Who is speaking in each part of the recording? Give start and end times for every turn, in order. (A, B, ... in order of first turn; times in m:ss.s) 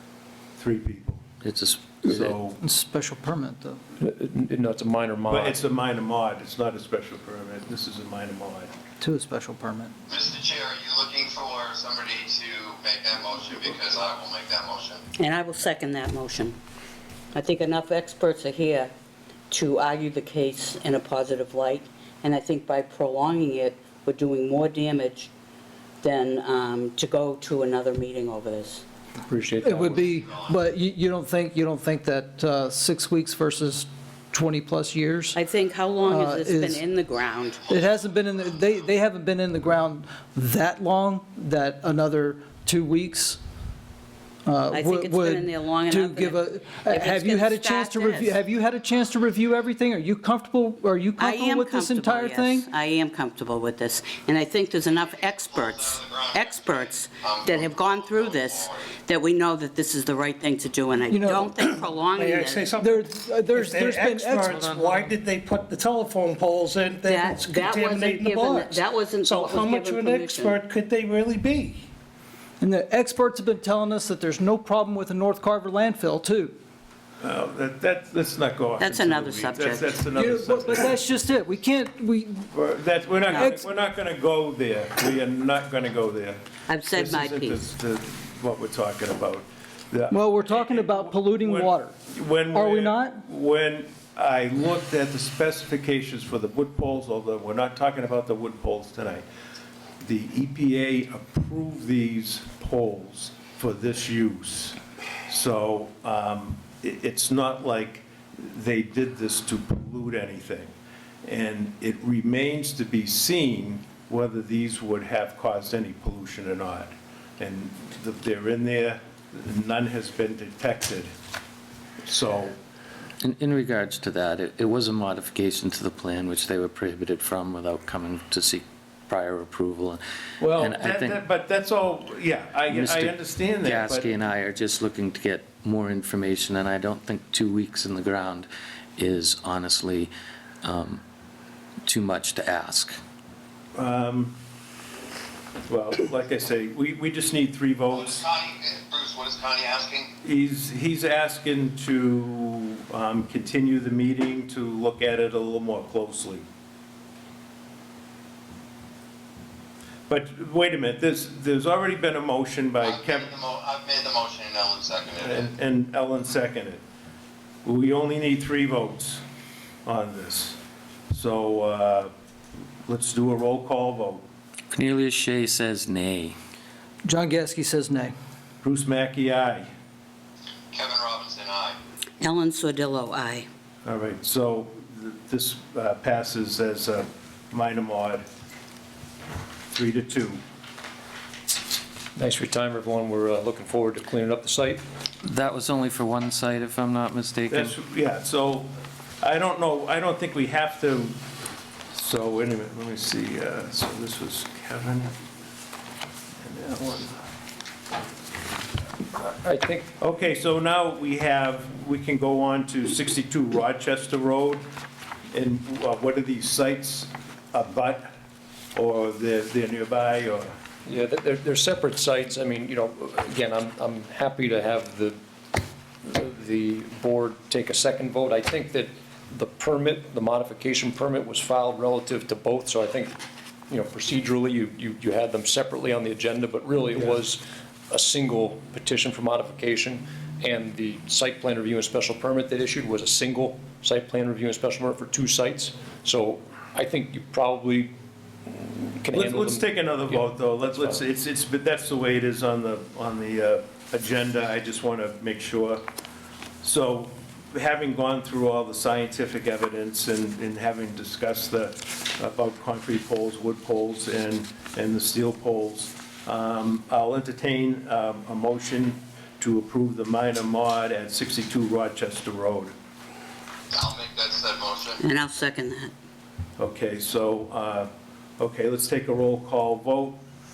0:00.6-0:01.2 A
0:01.4-0:02.5 B
0:02.0-0:02.6 A
0:02.6-0:03.8 C
0:04.0-0:05.6 D
0:05.3-0:08.7 A
0:09.0-0:09.9 C
0:10.1-0:15.0 E
0:15.2-0:16.6 F
0:17.3-0:18.9 F
0:19.5-0:25.3 F
0:26.0-0:28.9 F
0:29.3-0:30.1 D
0:29.6-0:35.4 C
0:35.4-0:37.7 F
0:36.1-0:36.8 C
0:37.7-0:43.4 C
0:44.4-0:52.7 C
0:44.7-0:48.4 F
0:51.2-1:02.8 F
0:55.1-0:58.9 E
1:01.1-1:01.5 C
1:01.6-1:11.9 G
1:02.8-1:04.5 C
1:04.5-1:05.2 B
1:07.0-1:10.6 F
1:12.6-1:16.5 C
1:17.2-1:21.0 A
1:18.8-1:20.1 F
1:20.2-1:22.5 C
1:22.5-1:39.2 A
1:23.3-1:23.5 F
1:23.4-1:23.6 C
1:26.7-1:27.6 F
1:30.1-1:31.9 C
1:32.5-1:33.2 C
1:40.0-1:50.7 A
1:51.2-2:01.1 A
2:02.1-2:02.6 A
2:03.2-2:11.2 B
2:10.4-2:14.1 A
2:12.7-2:20.1 B
2:20.6-2:21.0 B
2:21.9-2:23.0 B
2:23.8-2:24.4 A
2:25.7-2:28.2 A
2:27.9-2:30.1 E
2:30.2-2:36.4 A
2:40.1-2:43.3 A
2:42.8-2:45.5 E
2:45.2-2:46.8 A
2:47.6-2:49.2 A
2:49.9-2:50.6 A
2:51.1-2:52.1 A
2:52.9-2:54.2 A
2:54.7-2:56.4 B
2:57.0-2:58.1 C
2:58.6-2:59.7 A
3:00.7-3:01.8 E
3:02.2-3:03.5 F
3:03.8-3:08.2 A
3:09.7-3:10.4 A
3:12.2-3:14.8 D
3:15.2-3:17.8 B
3:17.5-3:21.2 A
3:21.9-3:25.1 A
3:26.4-3:27.2 A
3:29.4-3:29.9 D
3:30.0-3:34.6 A
3:35.3-3:38.1 A
3:38.8-3:40.5 A
3:40.9-3:45.2 D
3:46.0-3:53.2 D
3:53.7-4:07.9 D
4:08.5-4:11.0 D
4:09.1-4:15.8 A
4:16.6-4:32.7 A
4:33.7-4:35.0 E
4:35.0-4:35.9 F
4:36.6-4:40.2 A